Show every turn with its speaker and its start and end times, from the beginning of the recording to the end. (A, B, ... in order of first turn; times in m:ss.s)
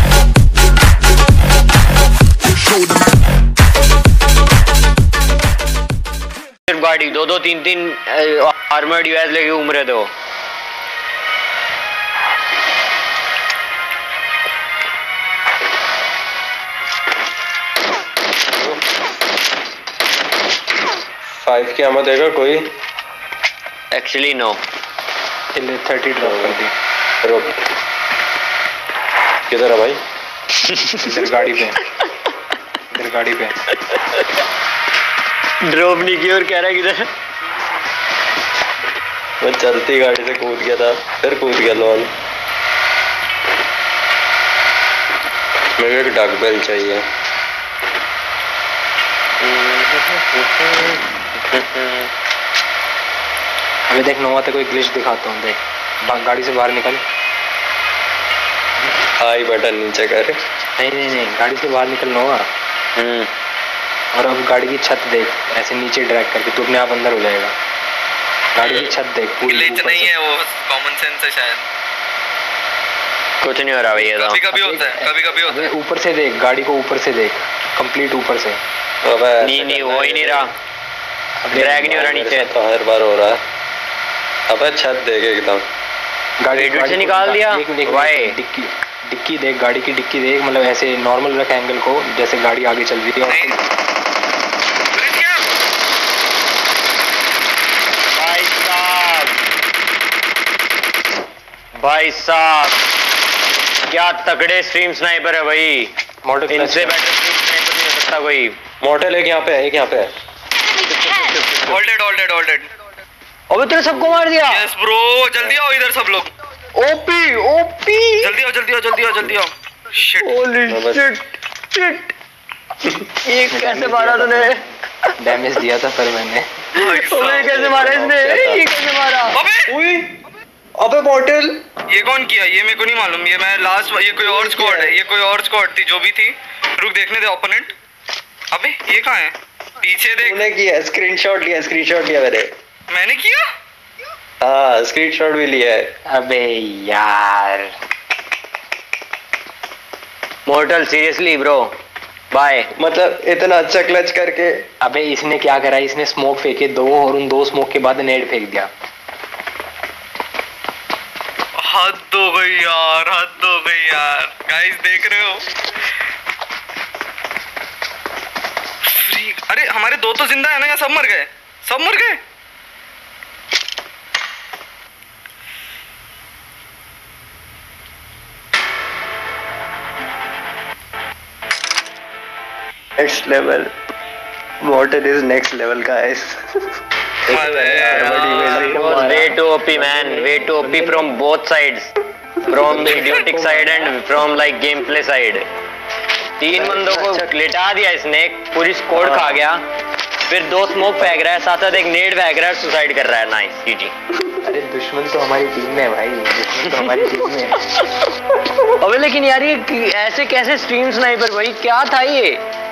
0:06.7-0:10.1 A
0:18.6-0:18.8 B
0:21.4-0:22.7 B
0:23.9-0:24.6 A
0:25.5-0:26.7 C
0:26.2-0:26.6 B
0:27.2-0:27.6 B
0:29.5-0:30.0 B
0:30.7-0:31.3 A
0:31.0-0:31.8 C
0:32.9-0:33.6 C
0:33.9-0:34.2 A
0:35.6-0:37.1 A
0:39.4-0:42.1 B
0:45.8-0:47.1 B
0:49.4-0:51.0 A
0:51.5-0:52.1 A
0:53.9-0:57.0 C
0:59.2-1:00.4 B
1:00.8-1:02.5 C
1:03.0-1:03.3 A
1:04.1-1:07.5 C
1:08.6-1:10.1 C
1:08.6-1:08.9 D
1:09.5-1:11.7 D
1:13.4-1:14.4 A
1:14.0-1:15.7 D
1:14.5-1:18.6 C
1:19.0-1:20.5 B
1:19.4-1:20.5 A
1:21.4-1:22.0 C
1:21.5-1:22.5 A
1:21.6-1:23.4 B
1:24.5-1:25.7 B
1:26.4-1:33.6 C
1:26.5-1:28.4 A
1:33.3-1:33.6 D
1:34.9-1:35.4 D
1:38.2-1:39.4 A
1:41.8-1:42.8 A
1:43.9-1:45.9 A
1:46.2-1:47.0 C
1:46.5-1:48.6 A
1:48.8-1:50.1 B
1:50.7-1:51.8 A
1:51.6-1:52.7 D
1:53.5-1:54.7 A
1:54.4-1:56.3 D
1:56.7-1:58.3 A
1:58.2-2:00.3 D
2:00.2-2:02.1 A
2:00.7-2:01.0 B
2:03.2-2:04.6 A
2:03.5-2:04.6 C
2:05.2-2:06.5 C
2:06.7-2:09.4 A
2:06.8-2:07.6 D
2:07.3-2:08.6 B
2:09.3-2:09.7 D
2:09.7-2:10.2 B
2:10.8-2:11.6 B
2:11.9-2:17.7 D
2:14.2-2:15.0 B
2:18.5-2:20.4 D
2:20.2-2:22.5 B
2:22.9-2:23.4 D
2:24.4-2:25.9 B
2:26.1-2:27.7 C
2:30.5-2:31.7 A
2:32.3-2:32.7 A
2:32.8-2:34.6 B
2:34.8-2:38.7 C
2:41.6-2:45.5 D
2:48.9-2:52.2 D
3:03.0-3:03.7 B
3:04.6-3:06.4 B
3:07.3-3:08.8 D
3:07.3-3:08.9 B
3:07.9-3:11.2 C
3:08.0-3:11.9 A
3:12.4-3:14.0 C
3:12.5-3:15.5 A
3:16.4-3:19.6 A
3:16.5-3:17.3 B
3:18.9-3:19.4 B
3:20.3-3:23.9 A
3:24.4-3:27.6 C
3:26.7-3:27.0 A
3:27.8-3:28.1 A
3:28.7-3:32.4 A